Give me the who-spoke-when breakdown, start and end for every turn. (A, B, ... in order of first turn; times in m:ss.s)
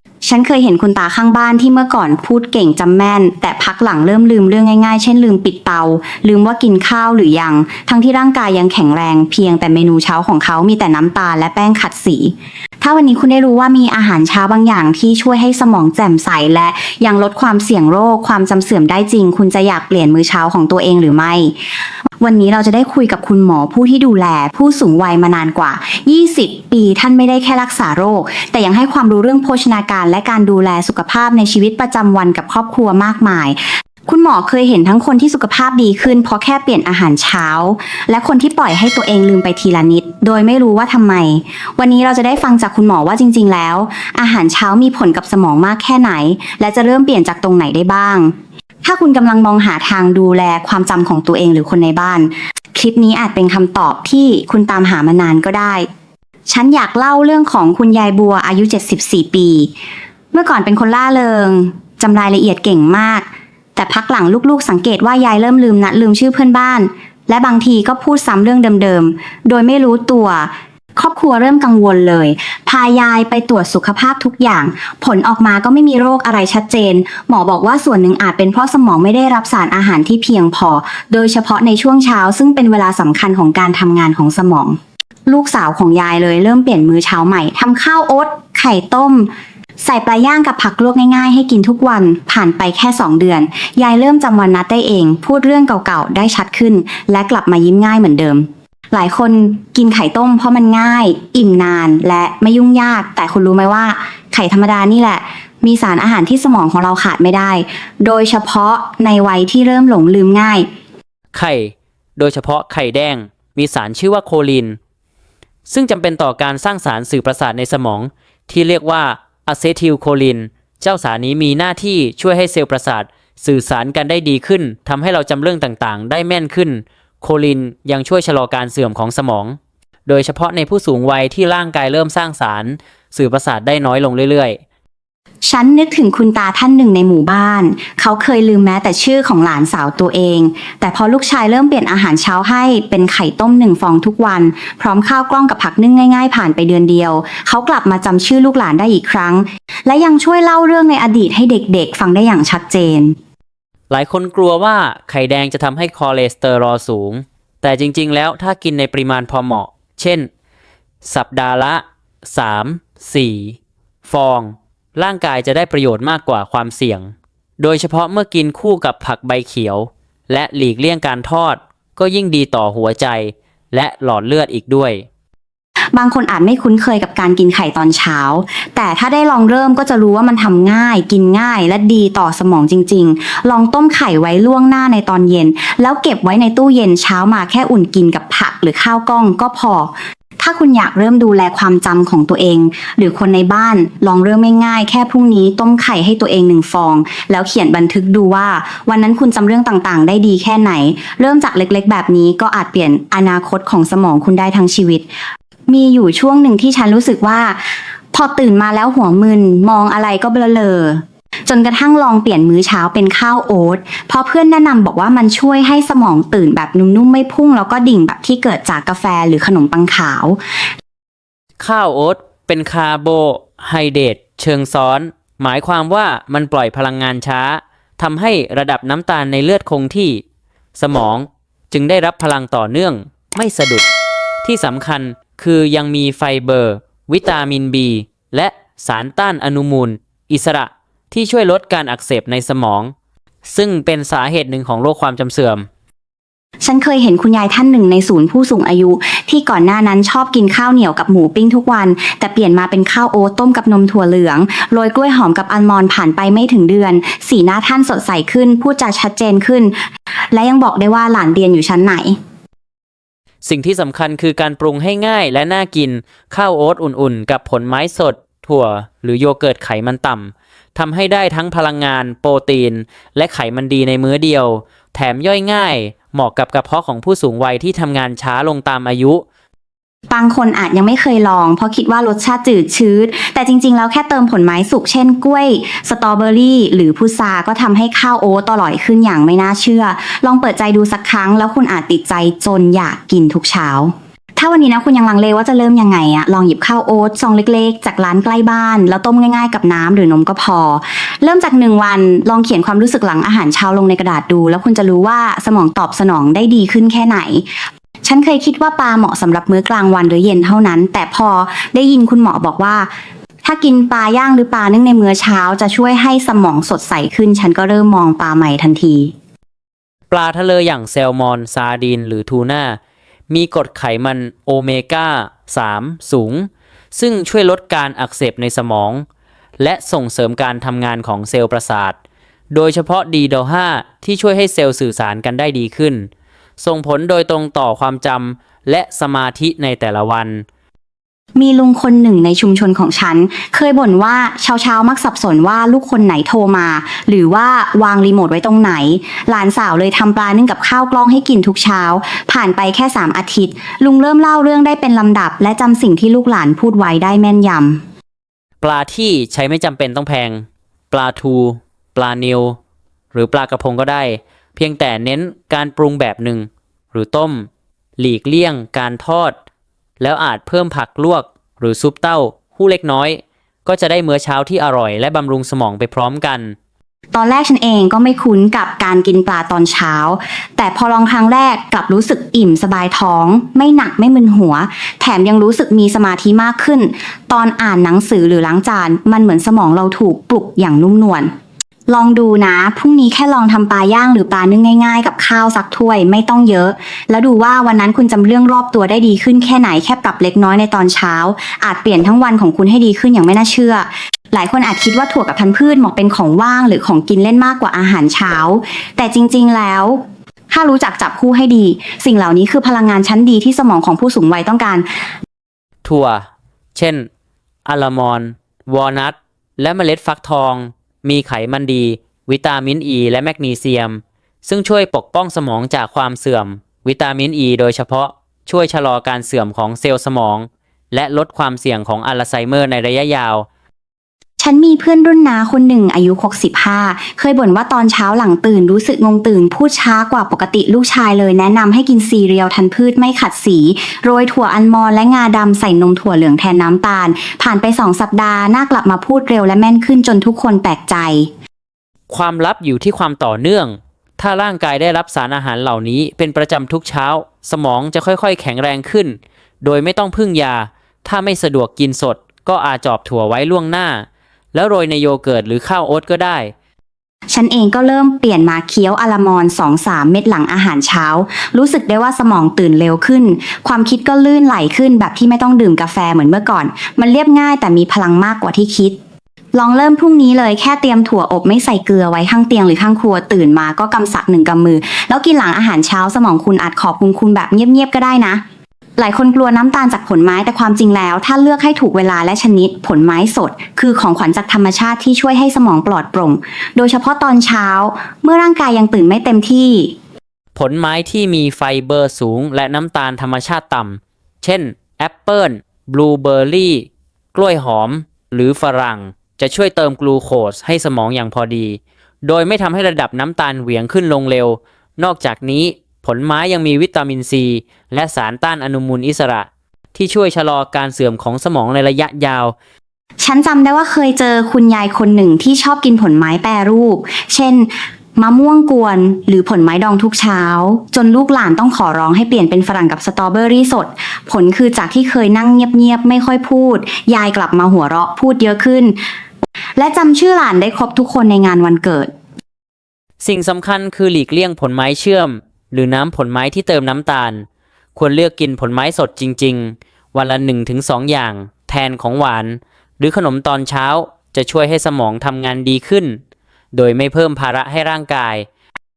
0:00.2-0:21.6 A
0:22.2-0:48.3 A
0:48.8-0:55.9 A
0:56.5-0:59.7 A
1:00.3-1:29.3 A
1:29.8-1:50.7 A
1:51.3-1:54.8 B
1:55.7-2:14.6 B
2:15.5-2:33.2 A
2:33.9-2:40.3 B
2:41.0-2:55.0 B
2:55.9-3:25.0 A
3:25.7-3:27.6 A
3:28.1-3:40.4 A
3:41.6-3:50.2 B
3:50.8-3:53.9 B
3:54.4-4:02.9 B
4:03.5-4:05.7 B
4:06.6-4:19.7 A
4:20.3-4:22.2 A
4:23.4-4:39.2 B
4:40.1-5:12.9 A
5:13.4-5:19.1 A
5:20.1-5:22.8 B
5:23.3-5:29.0 B
5:29.6-5:32.0 B
5:32.5-5:36.1 B
5:36.6-5:40.4 B
5:41.4-5:57.8 A
5:58.6-6:02.6 B
6:03.1-6:09.4 B
6:10.0-6:16.6 B
6:17.1-6:31.3 A
6:31.9-6:54.9 A
6:55.8-6:57.1 B
6:57.7-7:13.5 B
7:14.4-7:31.3 A
7:32.1-7:46.5 B
7:47.3-7:59.0 A
7:59.5-8:08.4 A
8:09.0-8:19.9 A
8:20.6-8:42.5 B
8:43.2-8:59.0 A
8:59.8-9:02.1 A
9:03.2-9:16.2 B
9:16.7-9:18.5 B